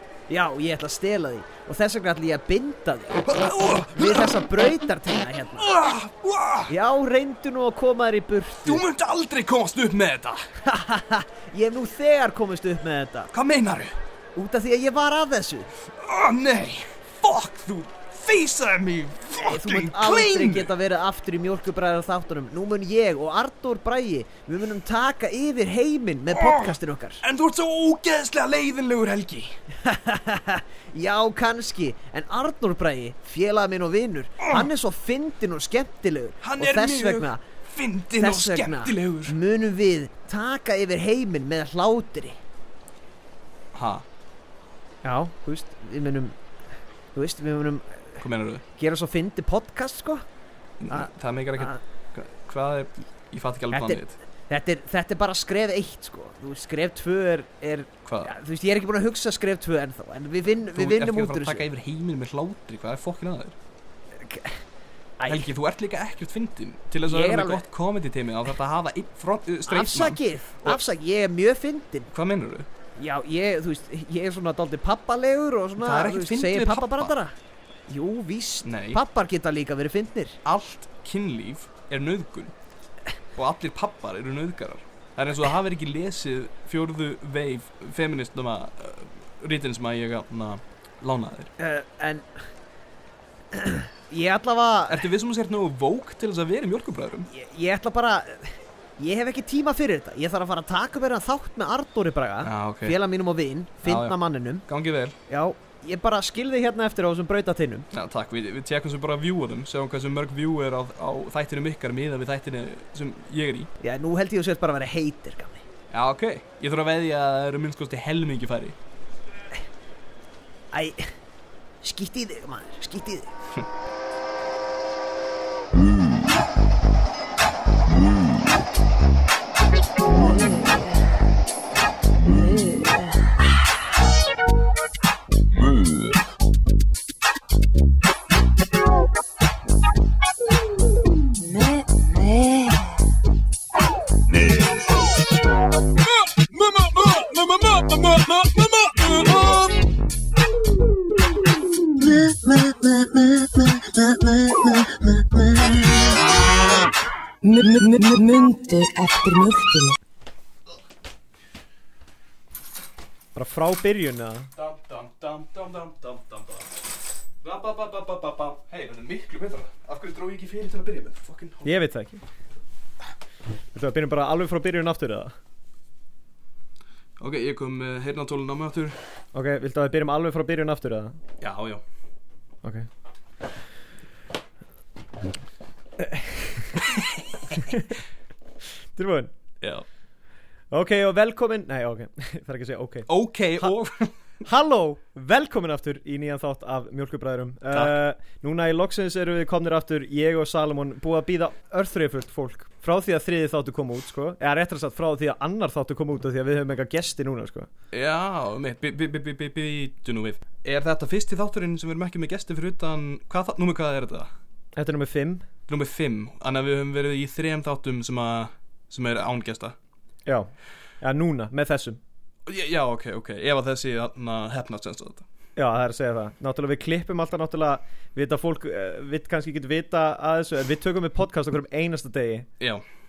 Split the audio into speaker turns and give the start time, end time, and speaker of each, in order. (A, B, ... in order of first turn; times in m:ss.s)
0:00.3-0:05.7 A
0:03.3-0:04.5 B
0:05.6-0:06.7 B
0:06.7-0:08.8 A
0:08.6-0:10.4 B
0:10.6-0:13.3 A
0:13.3-0:13.9 B
0:14.4-0:15.7 A
0:15.9-0:20.7 B
0:19.4-0:27.2 A
0:26.3-0:29.6 B
0:29.8-0:37.4 A
0:34.4-0:34.7 B
0:36.4-0:39.4 B
0:38.1-0:42.4 A
0:43.7-0:44.0 B
0:45.0-0:46.4 A
0:47.2-0:48.2 A
0:48.2-0:48.6 B
0:48.8-0:50.2 A
0:50.8-0:54.2 B
0:50.9-0:51.8 A
0:53.7-1:01.6 A
0:58.0-0:58.3 B
1:00.7-1:03.6 B
1:04.2-1:04.6 A
1:05.2-1:05.5 A
1:05.2-1:10.8 B
1:07.0-1:07.7 A
1:09.7-1:12.1 A
1:12.1-1:12.7 B
1:13.0-1:17.3 A
1:15.8-1:17.2 B
1:17.9-1:20.4 A
1:18.6-1:19.0 B
1:20.4-1:22.5 B
1:23.4-1:31.5 B
1:31.6-1:32.3 A
1:33.5-1:35.1 A
1:34.9-1:37.3 B
1:37.3-1:44.6 A
1:42.4-1:43.0 B
1:43.8-1:44.2 B
1:44.7-1:45.2 B
1:45.3-1:47.9 A
1:47.9-1:53.7 B
1:53.8-1:55.6 A
1:55.9-1:58.8 B
2:00.7-2:01.1 A
2:01.8-2:03.3 A
2:10.0-2:11.2 C
2:12.2-2:13.3 C
2:21.2-2:23.0 C
2:24.4-2:24.7 C
2:26.9-2:29.6 B
2:27.7-2:29.7 C
2:32.0-2:35.8 C
2:37.4-2:40.0 C
2:43.4-2:44.5 A
2:44.6-2:46.8 B
2:47.4-2:51.7 B
2:51.6-2:52.2 A
2:53.7-2:55.3 A
2:57.2-2:59.0 B
2:59.3-3:01.2 A
3:01.4-3:01.8 B
3:06.0-3:07.0 A
3:07.5-3:08.0 A
3:09.0-3:09.3 A
3:10.7-3:13.1 A
3:13.1-3:14.1 B
3:14.4-3:27.7 A
3:27.9-3:34.3 B
3:34.8-3:35.4 A
3:35.7-3:39.8 B
3:41.0-3:42.0 A
3:42.5-3:45.2 B
3:45.6-3:52.5 A